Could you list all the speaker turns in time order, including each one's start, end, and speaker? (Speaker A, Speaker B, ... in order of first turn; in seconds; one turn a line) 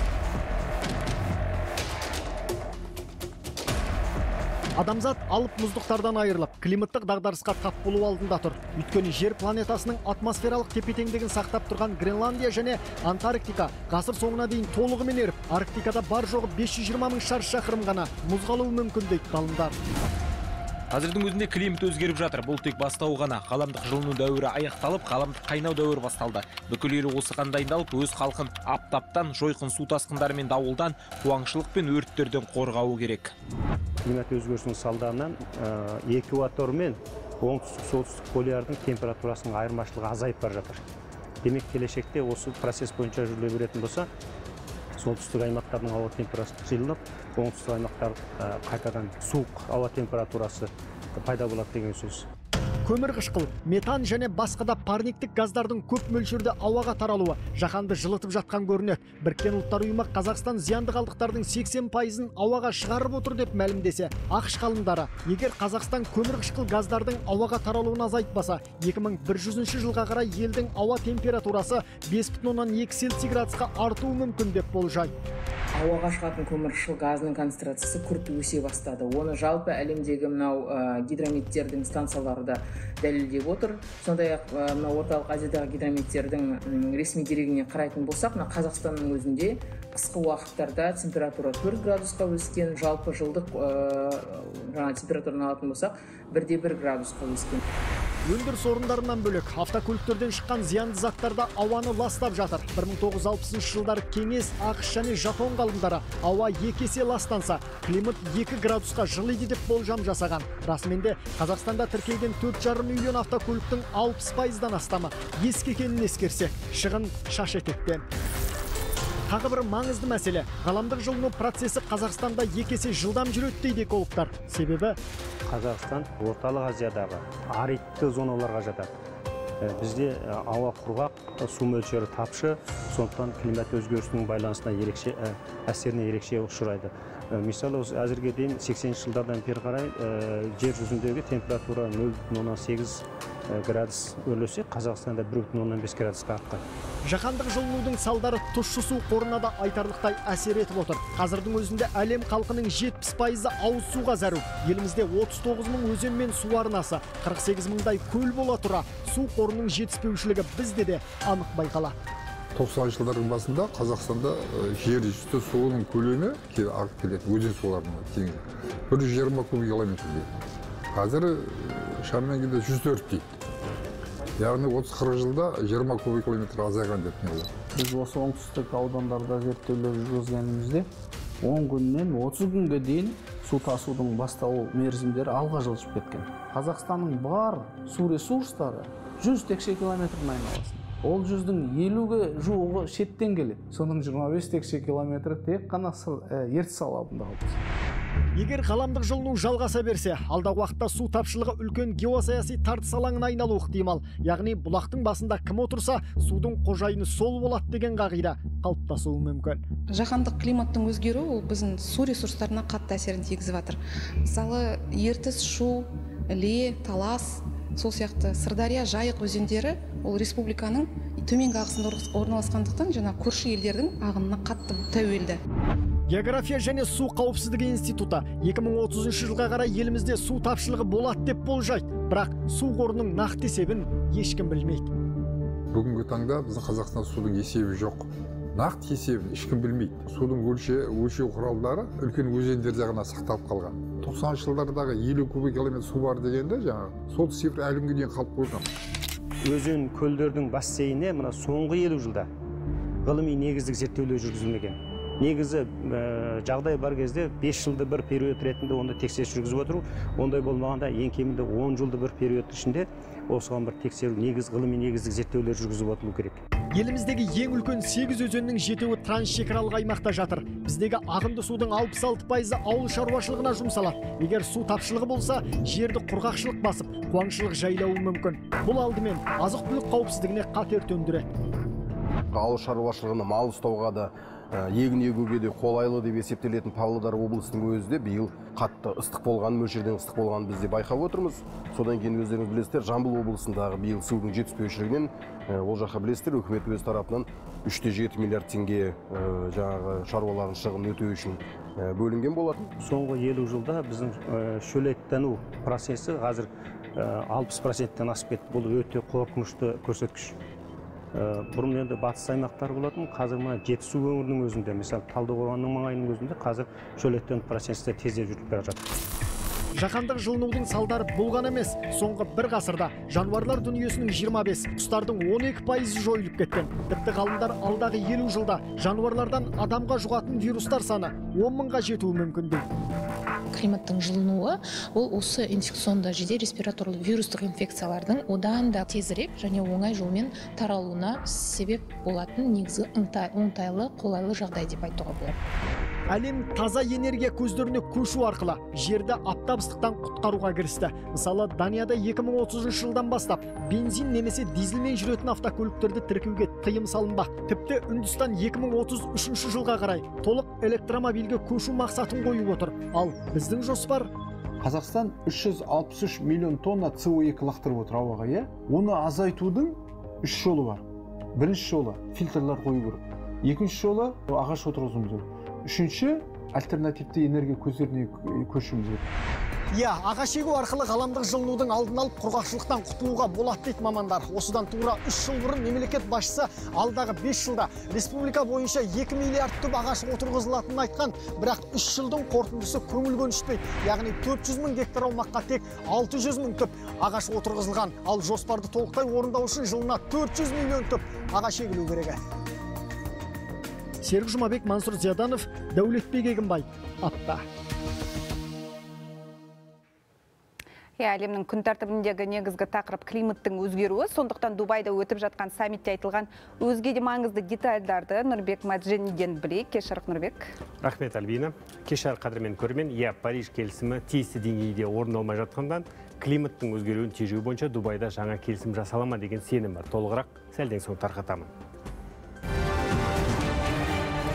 Speaker A: 4.8-19.7
Speaker B: 20.9-33.3
Speaker C: 34.0-40.8
Speaker C: 41.4-44.1
Speaker C: 45.0-52.3
Speaker A: 52.9-75.1
Speaker D: 75.7-97.6
Speaker A: 98.2-118.0
Speaker A: 119.3-125.0
Speaker C: 125.5-128.9
Speaker C: 129.6-146.6
Speaker A: 147.0-161.9
Speaker E: 162.5-170.3
Speaker E: 170.9-173.3
Speaker E: 174.4-177.5
Speaker F: 177.7-180.9
Speaker F: 181.4-197.6
Speaker A: 198.3-209.6
Speaker G: 209.9-225.4
Speaker A: 226.1-234.9
Speaker E: 235.7-248.6
Speaker C: 249.4-252.3
Speaker C: 253.0-266.4
Speaker A: 266.7-281.2
Speaker H: 282.3-302.7
Speaker C: 302.8-310.4
Speaker C: 311.1-318.9
Speaker A: 319.7-332.6
Speaker I: 333.5-345.3
Speaker A: 346.1-364.1
Speaker A: 379.7-402.2
Speaker A: 404.0-407.4
Speaker J: 411.0-420.5
Speaker K: 420.8-431.5